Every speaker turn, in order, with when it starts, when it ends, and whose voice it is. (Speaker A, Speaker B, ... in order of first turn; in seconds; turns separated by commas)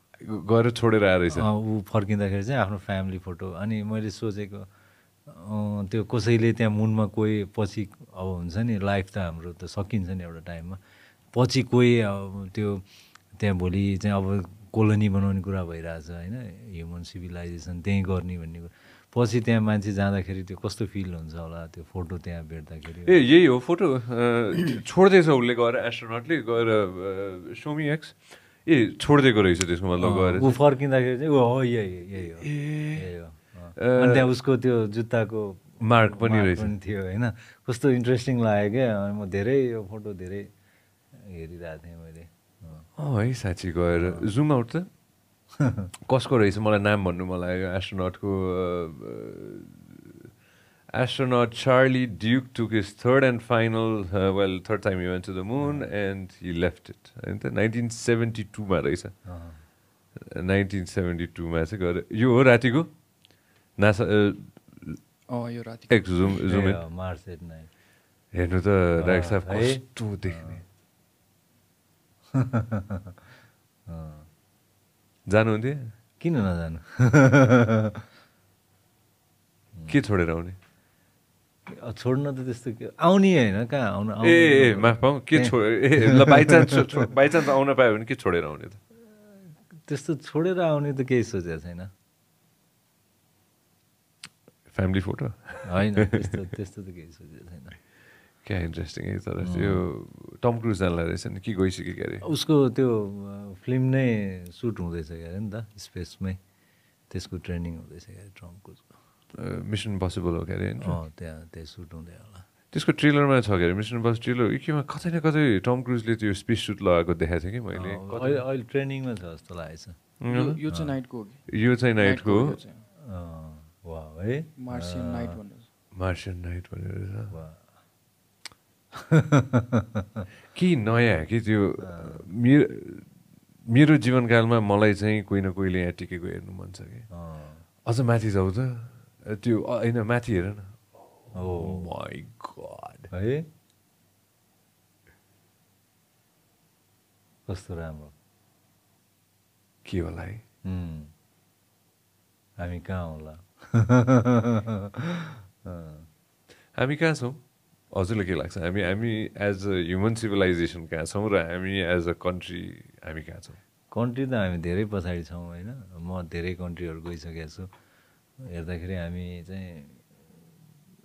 Speaker A: 0.2-1.5, Speaker B: 1.3-4.7, Speaker B: 5.3-10.8, Speaker B: 11.3-23.2, Speaker A: 23.1-30.6, Speaker B: 30.0-40.5, Speaker A: 32.4-33.1, Speaker A: 33.8-34.2, Speaker A: 35.8-36.7, Speaker B: 41.1-42.9, Speaker A: 43.0-44.9, Speaker B: 44.0-44.2, Speaker B: 45.6-45.9, Speaker A: 46.1-50.0, Speaker A: 50.9-59.2, Speaker B: 55.6-55.9, Speaker B: 59.2-59.6, Speaker A: 60.2-62.9, Speaker A: 63.8-65.0, Speaker C: 65.3-66.4, Speaker A: 65.9-66.8, Speaker B: 66.5-67.7, Speaker A: 68.3-70.6, Speaker B: 69.0-70.6, Speaker B: 72.3-73.2, Speaker B: 73.9-74.3, Speaker A: 75.3-75.9, Speaker B: 76.2-78.0, Speaker A: 79.9-80.6, Speaker B: 81.7-87.1, Speaker A: 84.2-88.8, Speaker B: 89.3-91.9, Speaker A: 94.7-96.4, Speaker B: 95.6-97.8, Speaker A: 98.4-102.2, Speaker B: 99.4-99.8, Speaker B: 102.2-106.4, Speaker B: 107.1-108.9, Speaker A: 109.4-111.0, Speaker B: 110.8-112.5, Speaker A: 112.7-118.4, Speaker B: 117.7-120.0, Speaker A: 120.2-120.6, Speaker C: 120.3-122.8, Speaker B: 120.7-121.0, Speaker A: 121.5-122.6, Speaker B: 123.0-125.4, Speaker C: 124.6-125.7, Speaker A: 126.0-127.3, Speaker B: 127.3-127.6, Speaker B: 128.9-130.3, Speaker A: 130.5-133.1, Speaker B: 131.8-132.2, Speaker A: 133.7-137.1, Speaker B: 137.1-137.6, Speaker A: 137.9-143.1, Speaker B: 141.3-141.8, Speaker B: 143.1-143.5, Speaker B: 147.5-148.1, Speaker A: 149.8-150.4, Speaker B: 150.6-151.1, Speaker B: 152.6-156.1, Speaker A: 156.8-157.4, Speaker A: 157.9-163.6, Speaker B: 163.9-167.7, Speaker B: 168.4-170.0